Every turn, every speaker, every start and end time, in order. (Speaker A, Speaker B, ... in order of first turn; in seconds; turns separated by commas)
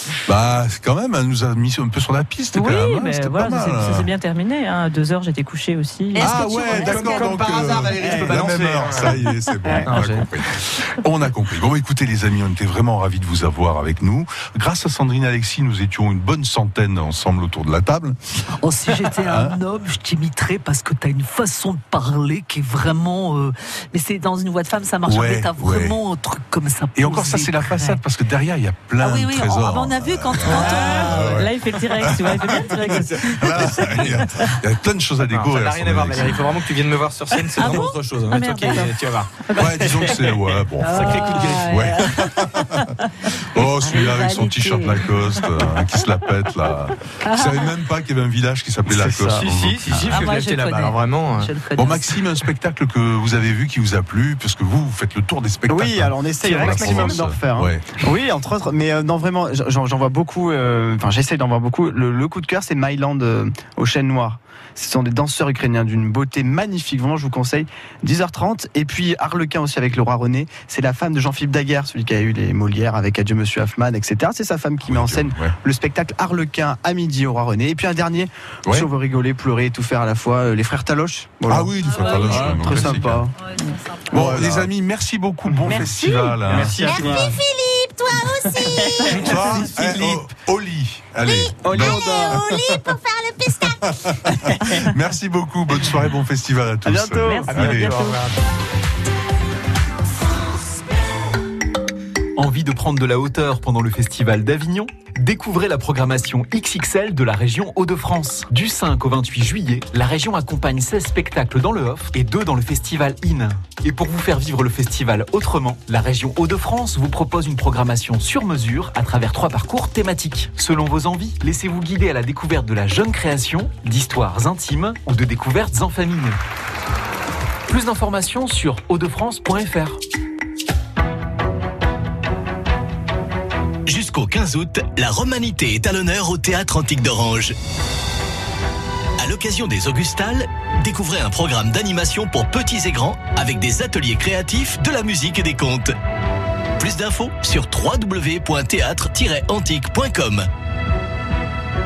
Speaker A: 0.3-4.1, Speaker B: 2.5-6.7, Speaker C: 6.1-8.0, Speaker A: 6.2-18.2, Speaker D: 7.1-7.8, Speaker E: 7.9-9.0, Speaker D: 8.4-8.8, Speaker D: 9.8-10.3, Speaker C: 18.6-28.0, Speaker A: 18.9-19.6, Speaker A: 25.0-26.0, Speaker A: 26.9-36.6, Speaker C: 29.0-31.4, Speaker B: 30.4-34.5, Speaker D: 33.8-34.2, Speaker D: 35.3-39.4, Speaker B: 37.5-40.2, Speaker A: 37.6-37.9, Speaker A: 39.5-42.9, Speaker C: 40.8-42.3, Speaker B: 40.9-41.6, Speaker D: 41.0-41.4, Speaker A: 43.5-50.3, Speaker C: 43.6-45.8, Speaker C: 47.2-47.7, Speaker D: 48.9-51.5, Speaker C: 49.9-52.2, Speaker A: 51.7-57.9, Speaker E: 55.7-83.3, Speaker D: 56.5-57.2, Speaker A: 74.8-75.5, Speaker A: 81.5-83.3, Speaker C: 81.8-82.7, Speaker C: 83.4-84.2, Speaker A: 84.1-87.1, Speaker E: 84.1-84.7, Speaker E: 85.5-85.8, Speaker B: 85.6-86.5, Speaker E: 86.5-87.4, Speaker F: 86.8-88.4, Speaker E: 88.3-89.7, Speaker A: 89.1-92.9, Speaker B: 89.3-89.7, Speaker F: 91.2-93.3, Speaker E: 91.6-92.4, Speaker A: 93.5-98.1, Speaker E: 96.8-98.1, Speaker B: 97.2-98.3, Speaker G: 102.3-126.4, Speaker G: 127.7-130.0, Speaker H: 133.9-137.6, Speaker H: 139.2-145.9, Speaker H: 146.8-150.5